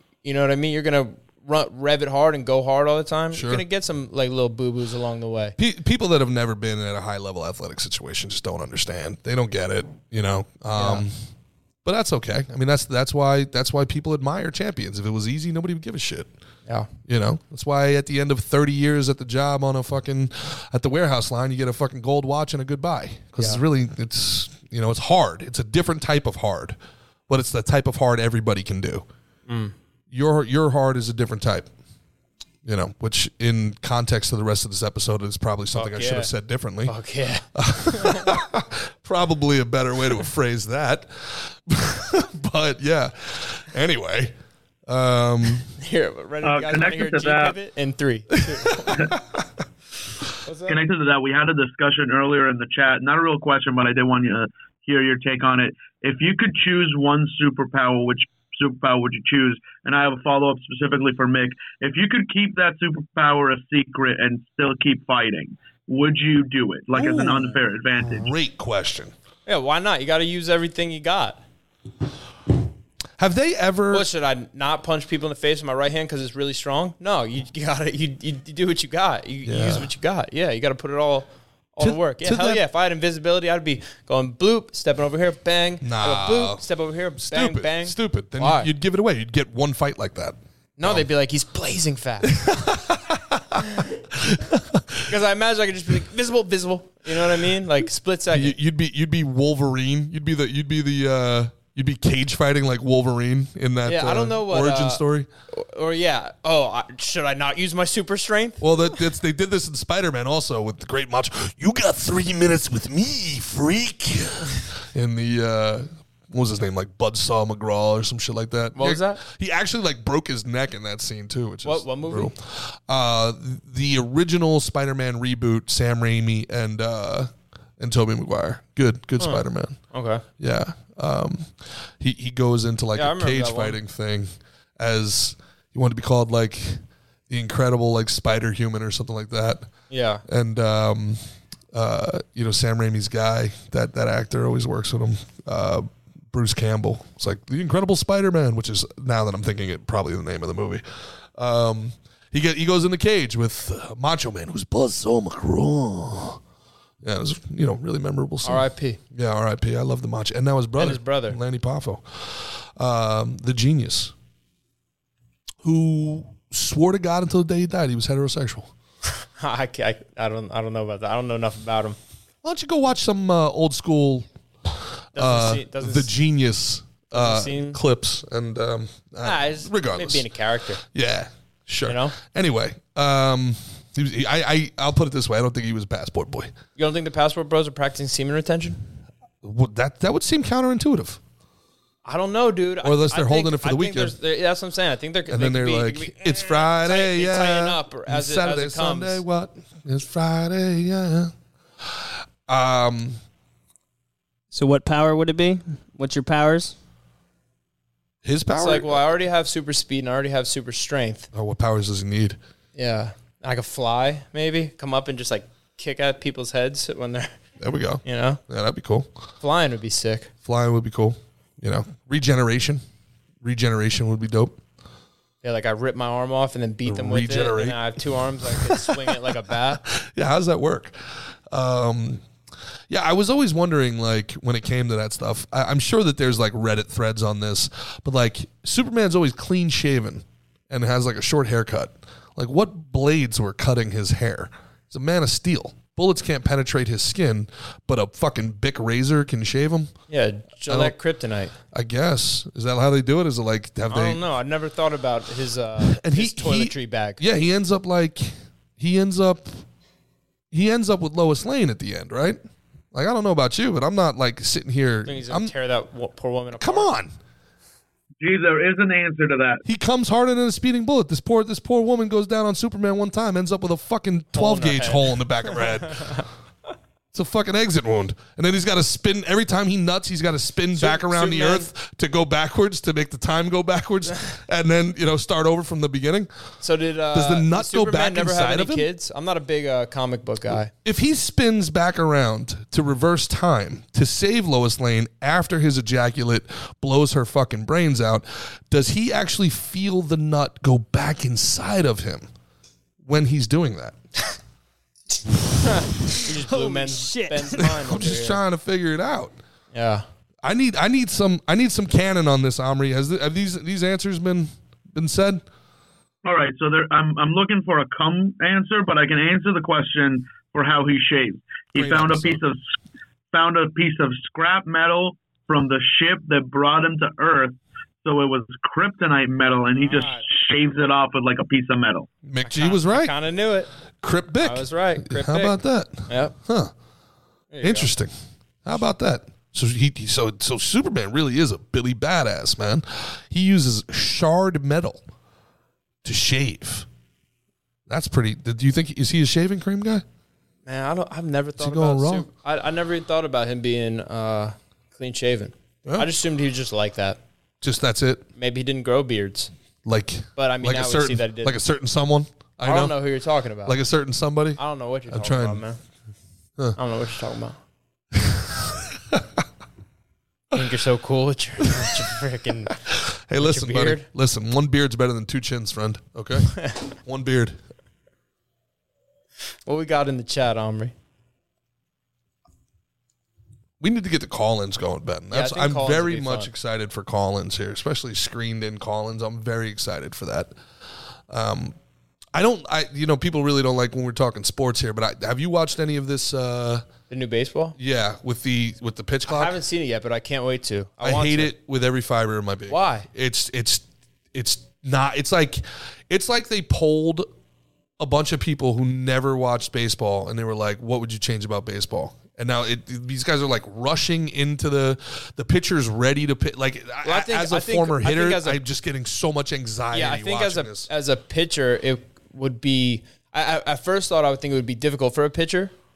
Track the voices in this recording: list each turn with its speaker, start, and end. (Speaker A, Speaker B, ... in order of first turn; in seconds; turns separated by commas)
Speaker A: 0.2-5.6, Speaker B: 3.3-3.6, Speaker B: 5.6-11.2, Speaker A: 10.8-11.0, Speaker B: 11.8-16.3, Speaker B: 17.1-26.8, Speaker B: 27.3-29.1, Speaker A: 29.5-29.7, Speaker B: 30.1-31.7, Speaker B: 32.6-36.9, Speaker A: 35.7-36.3, Speaker A: 36.9-38.4, Speaker B: 37.5-44.3, Speaker B: 44.9-45.7, Speaker A: 45.8-49.1, Speaker C: 46.4-47.5, Speaker A: 50.4-50.8, Speaker C: 50.7-68.3, Speaker B: 66.9-69.1, Speaker A: 69.5-71.4, Speaker B: 73.2-74.1, Speaker A: 73.9-88.7, Speaker B: 79.4-79.9, Speaker B: 81.8-82.6, Speaker B: 85.8-86.6, Speaker B: 87.2-91.1, Speaker A: 90.8-92.4, Speaker B: 92.2-95.1, Speaker A: 93.6-93.9, Speaker A: 95.1-98.6, Speaker B: 98.3-105.3, Speaker A: 103.8-108.7, Speaker B: 108.6-129.8, Speaker A: 118.8-119.2, Speaker A: 121.6-122.3, Speaker A: 129.2-130.2, Speaker B: 130.4-139.7, Speaker A: 132.9-133.8, Speaker A: 139.9-140.2, Speaker B: 140.3-141.2, Speaker B: 141.7-150.8, Speaker B: 151.3-156.4, Speaker B: 157.0-164.1, Speaker A: 158.4-159.0, Speaker A: 160.8-161.4, Speaker B: 165.6-168.7, Speaker A: 169.4-172.0, Speaker B: 172.4-180.3, Speaker A: 175.2-176.1, Speaker A: 177.1-177.8, Speaker A: 179.2-180.8, Speaker B: 180.8-186.5, Speaker A: 181.9-182.2, Speaker A: 186.8-188.8, Speaker B: 189.4-191.2, Speaker A: 192.1-199.2, Speaker B: 192.8-194.2, Speaker B: 195.3-201.3, Speaker B: 201.8-203.2, Speaker D: 204.5-206.8, Speaker B: 208.2-209.0, Speaker A: 208.5-211.3, Speaker B: 211.3-212.4, Speaker A: 212.8-217.3, Speaker B: 217.6-219.1, Speaker A: 218.0-218.4, Speaker A: 219.4-220.3, Speaker B: 220.4-222.8, Speaker B: 223.4-224.6, Speaker A: 225.4-229.8, Speaker B: 226.9-231.0, Speaker B: 231.5-232.2, Speaker B: 232.9-249.9, Speaker A: 250.1-251.5, Speaker B: 250.7-251.0, Speaker B: 251.7-254.2, Speaker A: 253.9-257.2, Speaker B: 255.8-259.6, Speaker B: 260.5-262.4, Speaker B: 262.9-265.5, Speaker A: 265.1-266.9, Speaker B: 266.6-267.1, Speaker C: 268.2-269.6, Speaker B: 269.6-276.2, Speaker A: 274.3-276.2, Speaker B: 277.1-286.3, Speaker A: 280.8-281.7, Speaker A: 286.6-290.7, Speaker B: 287.1-288.9, Speaker B: 290.8-302.3, Speaker B: 303.0-304.0, Speaker A: 305.6-308.4, Speaker D: 306.1-307.7, Speaker B: 307.6-309.4, Speaker A: 309.7-310.1, Speaker B: 310.4-315.4, Speaker C: 316.2-322.6, Speaker B: 321.8-322.4, Speaker C: 323.3-332.1, Speaker A: 329.7-330.2, Speaker B: 332.2-333.1, Speaker A: 332.4-333.7, Speaker B: 334.0-336.7, Speaker A: 334.4-336.3, Speaker A: 337.5-337.9, Speaker B: 337.6-338.1, Speaker B: 338.6-345.0, Speaker B: 346.0-346.9, Speaker B: 347.9-350.0, Speaker A: 350.7-357.2, Speaker B: 351.6-352.3, Speaker B: 357.6-358.3, Speaker A: 358.4-359.5, Speaker B: 359.9-363.0, Speaker A: 360.4-361.6, Speaker A: 362.6-363.8, Speaker B: 363.6-365.6, Speaker A: 364.6-365.8, Speaker A: 366.8-367.6, Speaker B: 368.1-369.3, Speaker A: 370.5-372.8, Speaker B: 372.9-377.6, Speaker A: 373.4-374.1, Speaker A: 376.5-376.8, Speaker A: 379.7-380.9, Speaker B: 383.8-390.5, Speaker A: 385.3-386.5, Speaker B: 391.3-391.8, Speaker B: 392.3-396.9, Speaker A: 397.1-397.8, Speaker B: 397.8-399.6, Speaker A: 399.3-401.5, Speaker B: 401.0-407.3, Speaker A: 402.7-403.1, Speaker B: 408.0-420.9, Speaker A: 417.0-418.6, Speaker A: 419.9-425.7